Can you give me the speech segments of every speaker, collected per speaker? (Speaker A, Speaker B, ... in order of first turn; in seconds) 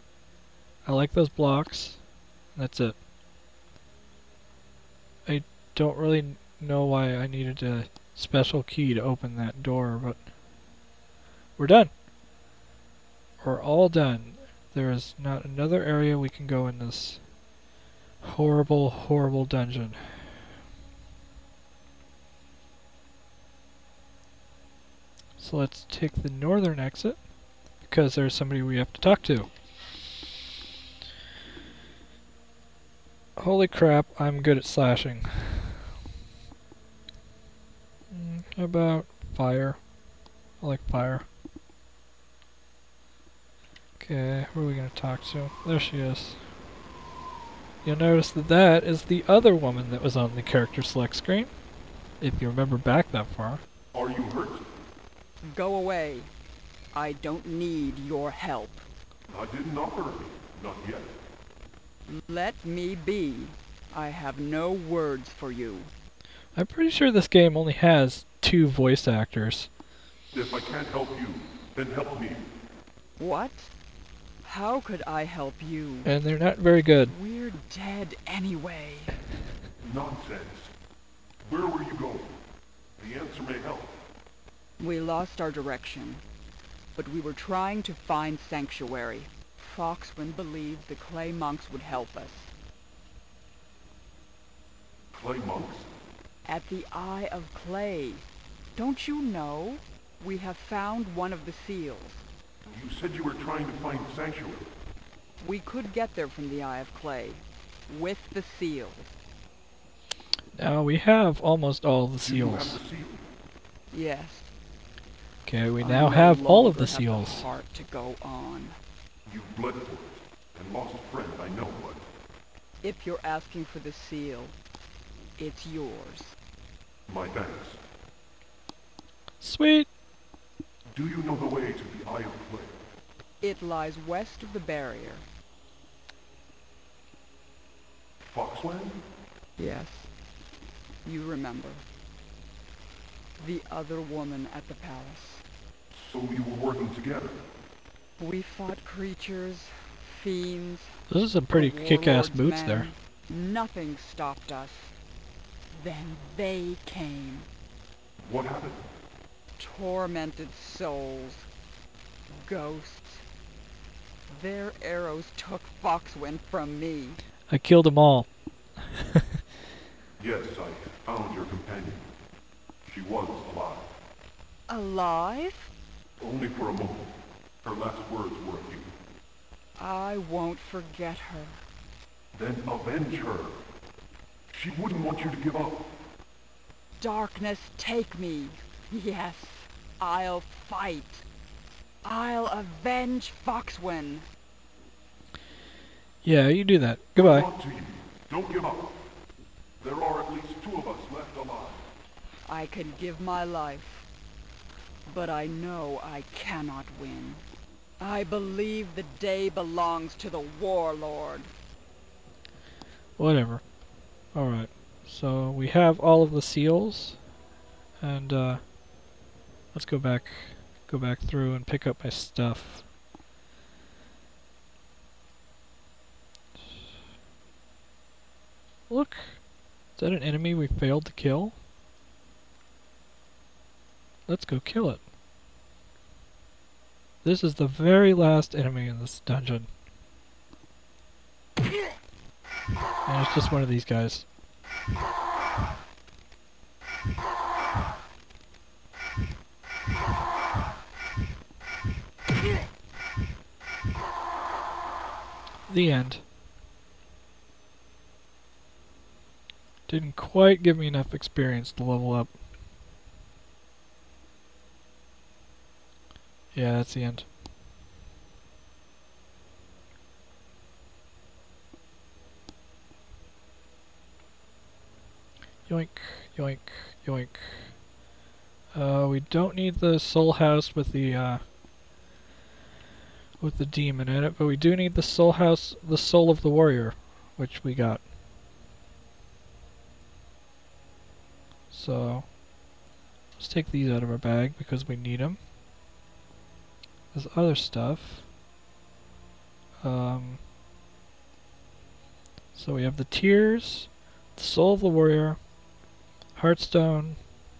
Speaker A: 0.8-3.0, 5.2-10.3, 11.6-11.9, 13.4-17.4, 18.2-20.4, 25.4-29.5, 33.4-35.9, 38.1-39.9, 40.6-41.2, 44.0-46.5, 47.8-51.6, 52.1-53.6, 66.5-69.7, 76.0-77.1, 110.5-112.8, 115.5-117.5, 129.4-129.9, 151.1-152.9, 167.5-168.4, 196.2-197.5, 213.2-213.7, 214.3-217.2, 218.0-218.7, 219.7-222.9, 228.9-231.6, 234.3-235.0, 237.2-239.7, 243.1-244.3, 255.7-256.2, 259.9-262.4, 266.5-267.3, 275.6-277.8, 278.7-281.5, 283.4-288.1, 291.7-292.4, 293.4-295.4, 297.1-298.3, 299.8-300.4, 302.5-305.5, 306.3-307.3
Speaker B: 53.9-54.6, 59.3-61.1, 70.3-72.4, 79.8-80.7, 81.4-82.3, 83.0-83.9, 95.1-95.9, 102.7-104.7, 112.2-113.2, 119.3-122.0, 127.1-127.8, 130.9-132.8, 138.3-139.0, 145.9-147.4, 158.2-158.8, 170.2-172.0, 172.9-173.8, 176.2-177.1, 177.6-178.9, 182.3-183.5, 184.5-185.8, 197.2-198.9, 199.8-201.8
Speaker C: 55.4-56.3, 56.9-58.8, 62.1-65.9, 73.2-73.7, 74.4-76.1, 77.0-79.2, 84.8-86.2, 86.9-92.5, 96.4-102.2, 105.4-109.2, 113.9-114.5, 115.8-118.8, 122.8-124.6, 125.4-126.3, 133.4-135.2, 139.6-140.1, 141.0-141.8, 143.4-145.4, 148.2-151.0, 151.5-154.9, 155.7-157.5, 159.6-161.5, 162.4-163.2, 164.3-167.2, 174.7-175.7, 179.8-181.6, 187.0-191.2, 192.0-194.3, 202.4-204.1, 205.1-207.4, 208.0-211.5